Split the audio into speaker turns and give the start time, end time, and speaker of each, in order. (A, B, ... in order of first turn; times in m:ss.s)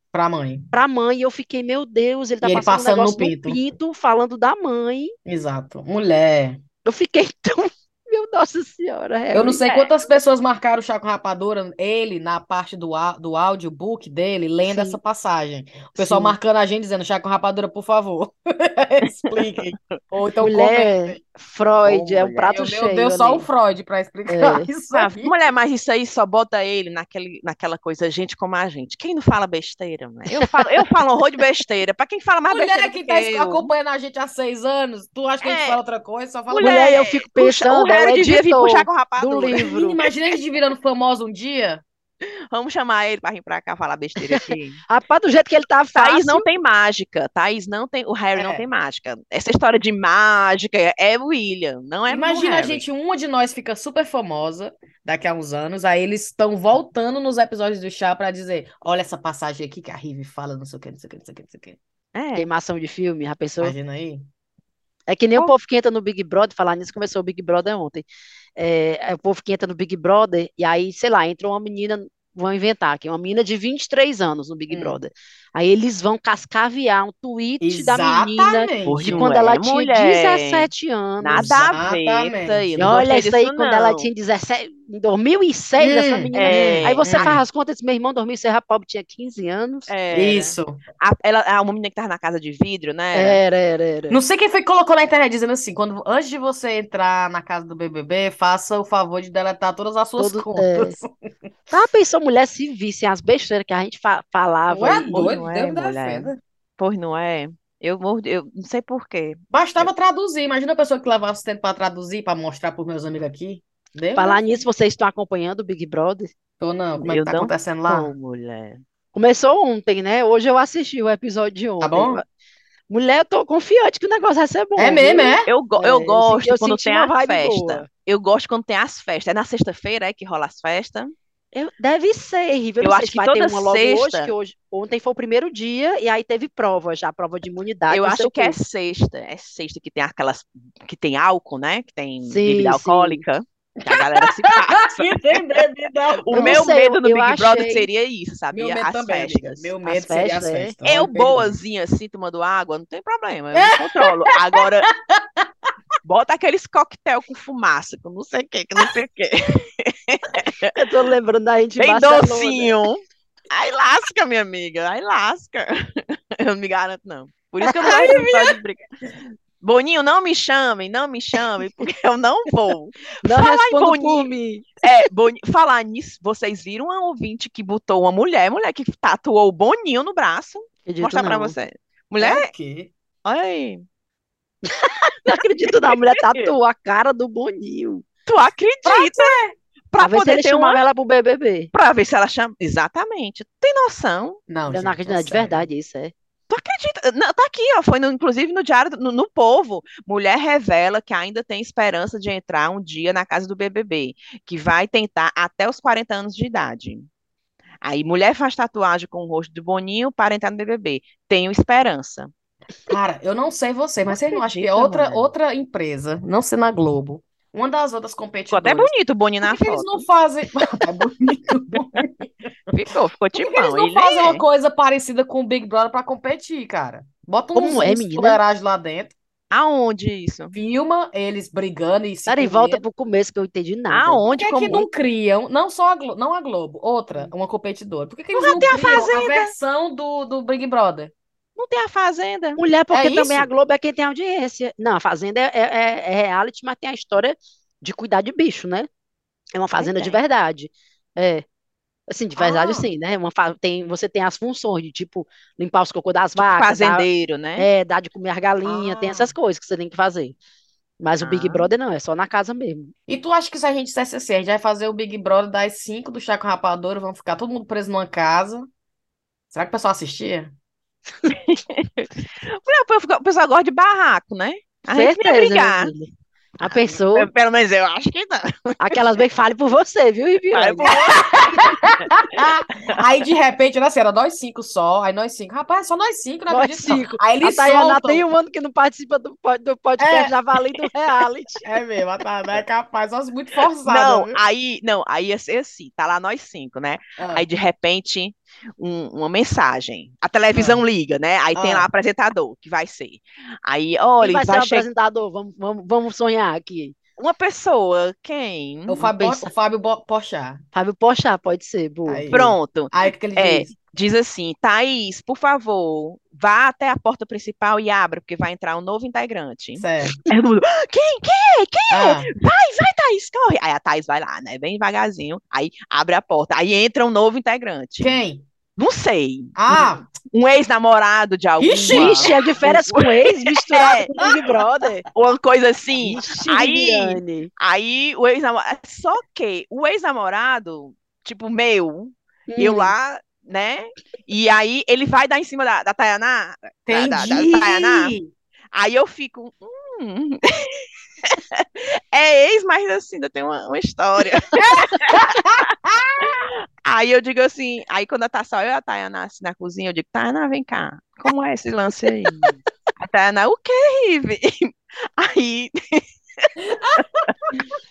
0:00.1-0:00.7 A
0:00.7-0:05.1 B
0:02.4-0:03.6 A
0:05.2-0:06.6 A
0:06.8-0:09.6 B
0:09.3-0:21.2 A
0:09.6-0:10.1 C
0:14.6-0:15.0 B
0:15.9-0:16.4 B
0:19.2-0:19.8 C
0:20.4-0:23.4 B
0:21.9-0:22.5 C
0:22.5-0:25.3 A
0:24.3-0:24.7 B
0:24.9-0:33.7 C
0:30.4-0:30.6 B
0:32.5-0:36.9 A
0:35.4-0:35.8 C
0:36.5-0:40.1 C
0:36.5-0:40.0 B
0:39.5-0:41.8 A
0:42.5-0:44.8 C
0:44.2-0:46.4 B
0:45.9-0:52.8 C
0:48.3-0:48.6 A
0:52.1-1:01.8 A
1:02.1-1:02.5 C
1:02.3-1:03.7 B
1:03.6-1:04.2 A
1:05.1-1:21.7 B
1:17.6-1:19.3 A
1:18.8-1:20.7 C
1:21.2-1:24.1 C
1:21.3-1:22.6 A
1:22.8-1:29.9 B
1:25.8-1:27.4 A
1:26.3-1:27.0 C
1:29.9-1:33.4 C
1:30.1-1:30.8 A
1:33.1-1:34.2 B
1:34.1-1:41.3 A
1:40.2-1:41.0 B
1:41.7-1:45.1 B
1:44.7-1:46.4 A
1:45.1-1:49.9 C
1:49.5-1:54.4 A
1:54.2-1:56.3 B
1:56.6-1:58.1 A
1:57.0-1:58.8 C
1:59.1-2:02.2 B
2:01.8-2:02.2 A
2:02.9-2:07.9 B
2:04.8-2:05.5 A
2:05.5-2:11.1 C
2:11.5-2:18.6 B
2:12.8-2:14.3 C
2:17.9-2:25.6 C
2:22.2-2:23.2 B
2:23.8-2:26.7 A
2:26.2-2:29.7 C
2:26.3-2:27.9 B
2:28.5-2:31.5 A
2:29.8-2:30.7 B
2:30.8-2:34.9 C
2:33.5-2:35.5 A
2:36.0-2:40.7 C
2:40.7-2:42.8 B
2:41.8-2:48.8 C
2:47.7-2:48.3 B
2:47.8-2:48.4 A
2:49.6-2:54.3 C
2:53.2-2:54.8 B
2:54.8-3:02.5 C
3:00.8-3:01.6 B
3:02.2-3:02.9 A
3:03.2-3:03.8 C
3:04.6-3:08.0 B
3:05.7-3:06.5 C
3:08.2-3:10.8 C
3:08.9-3:09.3 A
3:10.0-3:11.7 B
3:11.7-3:14.4 C
3:14.5-3:15.7 A
3:14.7-3:16.1 B
3:16.5-3:27.1 C
3:27.8-3:32.3 C
3:32.9-3:38.9 A
3:34.2-3:35.3 C
3:38.5-3:40.0 C
3:39.4-3:42.3 A
3:42.7-3:44.4 C
3:43.4-3:49.1 A
3:47.5-3:48.4 B
3:49.5-3:50.6 C
3:50.5-3:52.8 A
3:52.3-3:54.2 B
3:53.9-3:54.9 C
3:54.3-4:01.1 A
3:58.3-3:59.5 C
4:01.6-4:02.6 C
4:02.6-4:08.9 B
4:02.9-4:03.5 A
4:09.5-4:11.4 B
4:09.8-4:10.2 C
4:12.1-4:17.0 B
4:12.4-4:12.9 A
4:16.4-4:17.7 C
4:17.6-4:20.4 B
4:18.6-4:19.3 A
4:21.0-4:22.9 B
4:21.2-4:21.7 C
4:23.1-4:28.7 A
4:29.5-4:30.5 A
4:31.3-4:35.9 C
4:34.9-4:37.3 B
4:36.6-4:39.0 C
4:38.8-4:41.8 B
4:40.5-4:42.3 C
4:40.8-4:48.3 A
4:46.5-4:51.6 B
4:50.0-4:50.3 A
4:51.6-4:54.4 A
4:53.8-5:04.8 C
4:57.2-4:57.4 A
5:00.5-5:00.8 A
5:01.5-5:01.9 A
5:04.2-5:07.0 B
5:07.2-5:09.0 C
5:08.9-5:10.6 A
5:09.0-5:09.5 B
5:10.7-5:12.3 B
5:12.0-5:13.7 A
5:12.3-5:28.2 C
5:19.8-5:20.2 A
5:21.9-5:22.3 A
5:28.0-5:28.4 A
5:28.8-5:34.3 C
5:29.5-5:30.1 A
5:31.6-5:32.4 A
5:31.9-5:35.0 B
5:35.1-5:48.1 C
5:36.0-5:37.5 B
5:42.5-5:42.9 B
5:46.9-5:48.3 A
5:48.7-6:07.4 C
5:54.8-5:56.4 A
6:06.6-6:07.6 A